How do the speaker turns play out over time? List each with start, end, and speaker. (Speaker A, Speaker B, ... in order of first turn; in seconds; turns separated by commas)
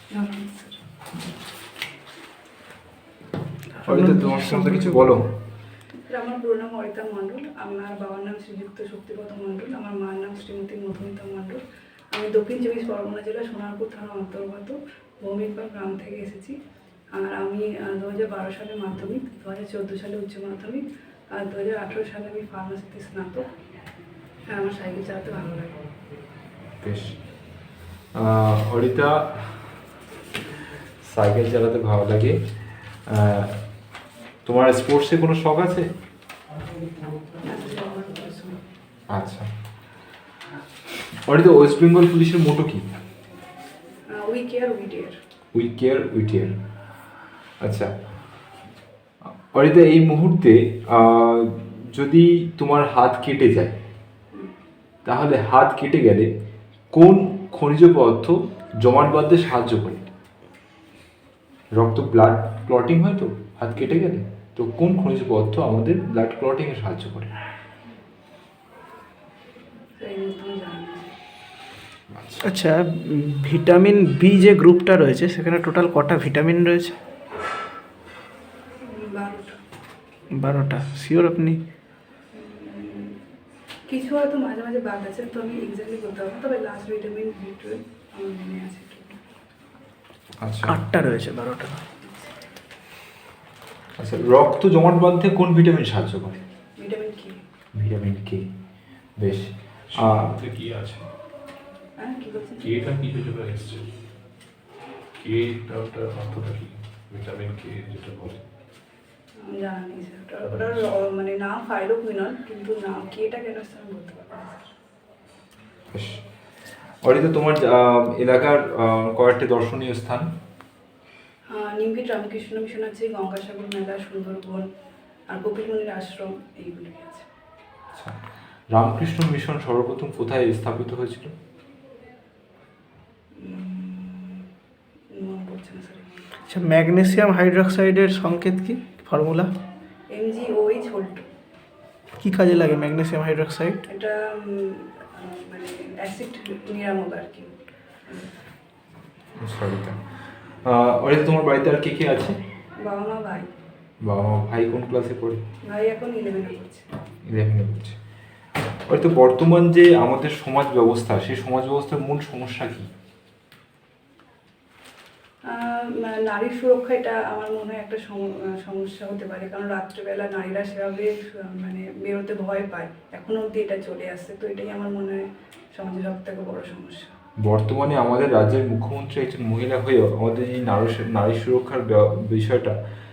Speaker A: 0.1-0.8, Speaker B: 3.8-5.0, Speaker C: 3.9-5.3, Speaker A: 6.0-11.6, Speaker A: 12.1-16.6, Speaker A: 17.1-20.8, Speaker A: 21.3-23.5, Speaker A: 24.5-25.8, Speaker C: 26.8-27.6, Speaker C: 28.1-29.8, Speaker C: 31.0-32.4, Speaker C: 33.0-33.5, Speaker C: 34.5-35.9, Speaker A: 37.4-38.6, Speaker C: 39.1-39.5, Speaker C: 41.3-42.9, Speaker A: 44.1-45.1, Speaker C: 45.5-46.5, Speaker C: 47.6-47.9, Speaker C: 49.5-53.8, Speaker C: 55.0-56.3, Speaker C: 56.9-60.1, Speaker C: 61.8-67.3, Speaker A: 70.0-71.2, Speaker C: 72.1-72.5, Speaker B: 72.4-77.0, Speaker A: 78.9-79.6, Speaker B: 80.3-81.6, Speaker A: 82.3-83.2, Speaker A: 83.9-89.2, Speaker C: 90.4-90.8, Speaker B: 90.7-91.8, Speaker A: 92.0-92.3, Speaker C: 94.0-96.4, Speaker A: 96.8-97.4, Speaker C: 97.7-98.5, Speaker C: 99.2-100.3, Speaker D: 99.9-101.1, Speaker A: 102.0-102.8, Speaker D: 102.6-103.9, Speaker D: 105.2-108.4, Speaker A: 109.4-114.7, Speaker C: 115.9-116.2, Speaker C: 117.0-120.3, Speaker A: 121.5-124.7, Speaker A: 125.3-127.3, Speaker C: 128.7-131.3, Speaker A: 133.4-134.5, Speaker A: 135.1-136.3, Speaker B: 136.5-139.5, Speaker A: 140.1-141.3, Speaker B: 142.2-143.8, Speaker A: 143.9-147.5, Speaker A: 148.1-148.3, Speaker C: 149.4-152.4, Speaker A: 152.8-153.5, Speaker C: 154.0-155.4, Speaker A: 155.6-156.9, Speaker C: 157.2-158.0, Speaker C: 158.9-162.9, Speaker A: 165.5-177.1, Speaker C: 177.4-182.8